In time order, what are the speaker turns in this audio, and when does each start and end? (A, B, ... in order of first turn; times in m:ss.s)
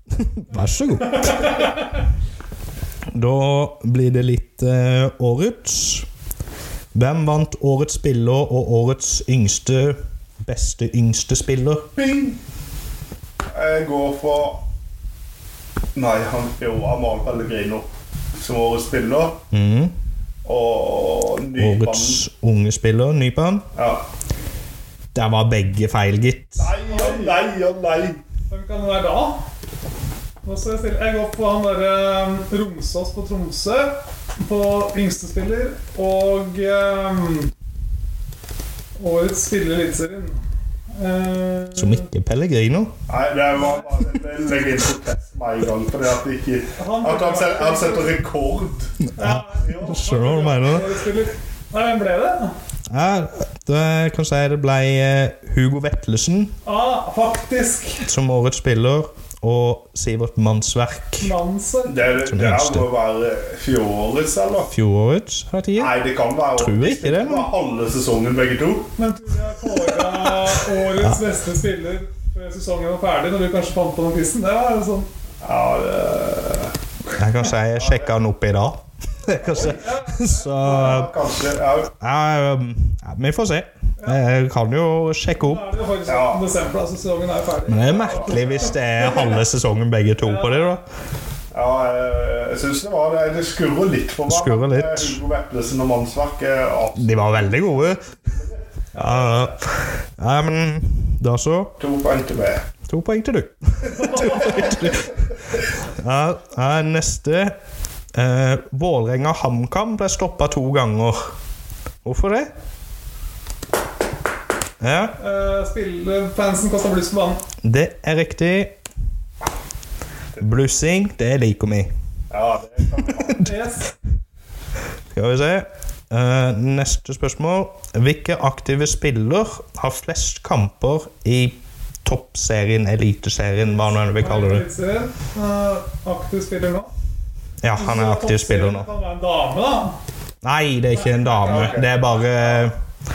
0:00.2-0:01.4 A
0:00.8-0:01.9 B
0:03.1-0:06.0 A
0:06.9-0:11.9 A
0:12.0-0:12.4 C
0:13.5-0:14.6 C
0:15.9-0:19.4 C
0:19.5-0:19.9 A
0:20.4-0:22.2 C
0:21.6-0:23.6 A
0:23.7-0:24.0 C
0:25.1-0:26.7 A
0:26.6-0:28.2 C
0:26.8-0:27.4 B
0:28.5-0:29.4 B
0:30.4-0:37.5 B
0:39.0-0:40.4 B
0:40.9-0:42.1 B
0:41.7-0:42.9 A
0:43.1-0:48.9 C
0:46.8-0:48.2 B
0:49.2-0:52.5 B
0:49.2-0:50.9 A
0:49.6-0:50.6 C
0:52.9-0:56.5 A
0:56.6-0:58.0 B
0:58.0-1:01.3 A
1:01.2-1:02.2 B
1:01.8-1:04.7 C
1:02.2-1:02.9 A
1:04.7-1:06.0 A
1:05.8-1:08.9 C
1:06.5-1:07.5 A
1:09.0-1:15.1 B
1:15.4-1:16.7 C
1:17.2-1:21.1 A
1:17.7-1:18.1 C
1:19.5-1:21.0 B
1:19.5-1:19.8 C
1:20.6-1:21.9 C
1:22.0-1:25.6 A
1:24.0-1:24.2 B
1:25.4-1:29.3 B
1:26.0-1:26.5 C
1:27.7-1:30.8 A
1:28.0-1:28.7 C
1:30.2-1:30.8 B
1:31.5-1:38.6 C
1:34.3-1:35.2 A
1:36.9-1:38.0 A
1:38.9-1:41.7 A
1:39.1-1:39.4 C
1:41.8-1:42.7 C
1:42.9-1:47.5 A
1:44.0-1:44.6 B
1:48.1-1:51.3 A
1:52.0-1:52.5 A
1:54.8-1:55.2 A
1:55.2-1:57.4 B
1:57.6-1:58.8 A
2:00.4-2:01.9 A
2:02.3-2:03.5 C
2:03.4-2:03.9 B
2:05.1-2:14.7 A
2:13.6-2:16.9 B
2:17.6-2:18.9 A
2:17.8-2:20.0 B
2:20.4-2:22.8 A
2:20.9-2:21.8 B
2:21.4-2:22.1 C